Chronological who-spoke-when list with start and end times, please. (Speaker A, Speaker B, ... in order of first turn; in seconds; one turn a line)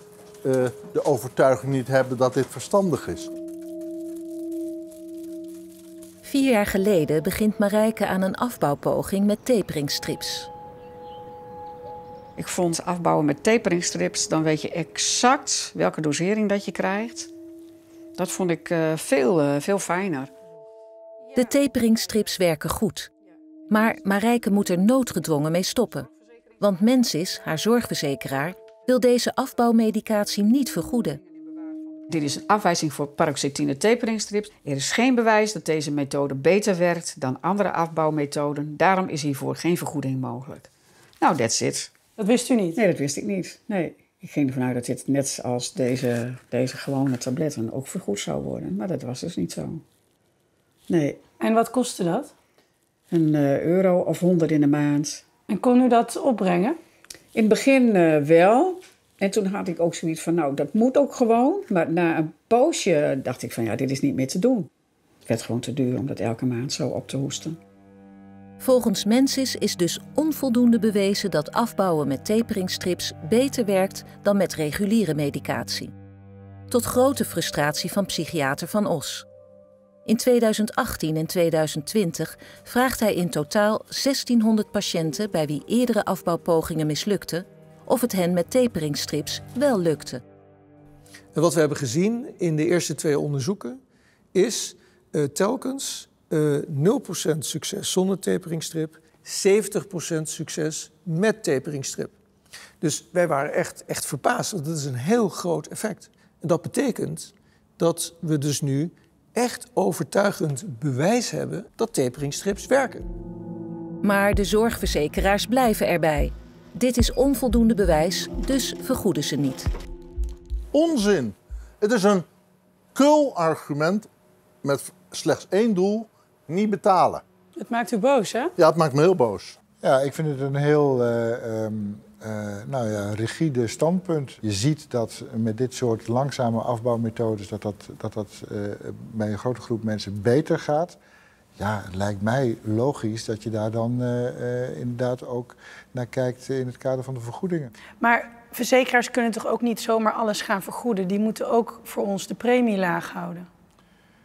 Speaker A: 0.4-3.3
Speaker B: 6.2-10.5
Speaker C: 12.4-17.3
Speaker C: 18.2-20.3
Speaker B: 21.4-23.1
Speaker B: 23.7-26.1
Speaker B: 26.6-31.2
Speaker C: 32.1-40.7
Speaker C: 41.2-41.9
Speaker D: 42.2-42.8
Speaker C: 42.8-49.8
Speaker C: 50.9-51.2
Speaker D: 51.4-52.3
Speaker C: 53.1-55.2
Speaker D: 55.5-56.8
Speaker C: 57.3-64.7
Speaker C: 65.3-67.6
Speaker B: 68.6-75.9
Speaker B: 76.7-79.3
Speaker B: 80.1-90.2
Speaker E: 91.3-93.8
Speaker E: 94.3-102.2
Speaker E: 102.8-113.1
Speaker B: 114.0-119.7
Speaker A: 120.7-122.2
Speaker A: 123.0-124.1
Speaker A: 124.6-127.2
Speaker D: 127.6-128.5
Speaker A: 128.6-129.6
Speaker F: 129.8-141.0
Speaker F: 141.6-147.7
Speaker D: 148.0-153.5